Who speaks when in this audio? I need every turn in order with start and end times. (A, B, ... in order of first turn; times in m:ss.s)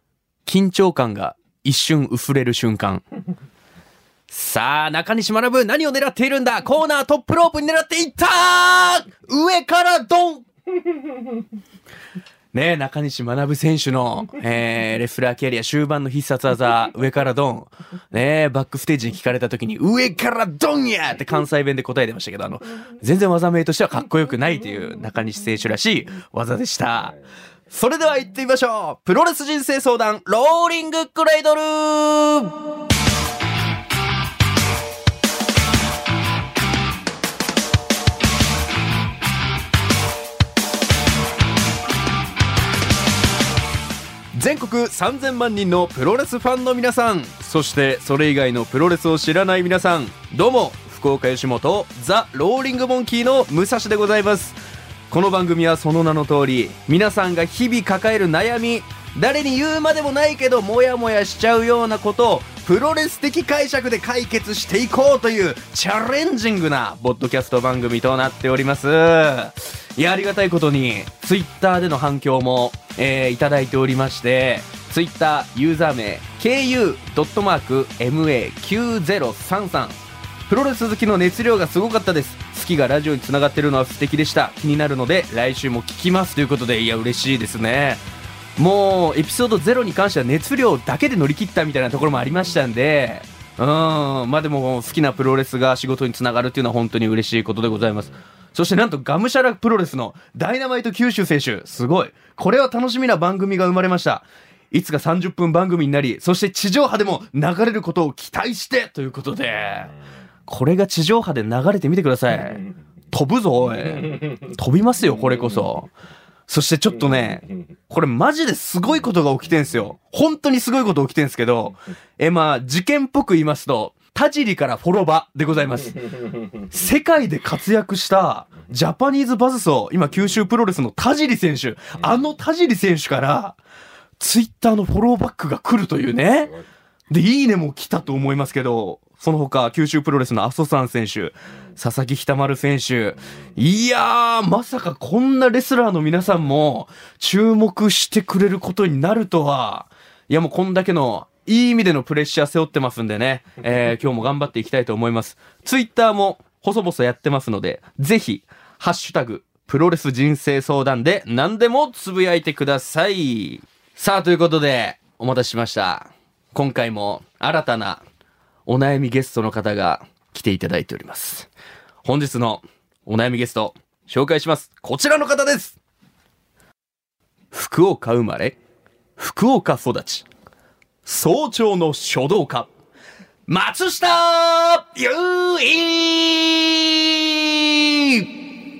0:00.4-0:03.0 A
0:04.3-0:10.4 A
0:12.5-0:27.1 A
0:27.7-0:32.6 A
0:44.3-0:54.6 A
0:55.1-1:28.0 A
1:28.6-1:49.9 A
1:50.5-1:55.9 A
1:56.5-2:06.0 A
2:06.7-2:13.6 A
2:14.2-2:16.5 A
2:17.1-2:48.0 A
2:48.6-2:51.5 A
2:52.0-2:55.8 A
2:57.5-2:58.6 A
2:59.2-3:00.2 A
3:01.0-3:02.7 A
3:03.5-3:08.3 A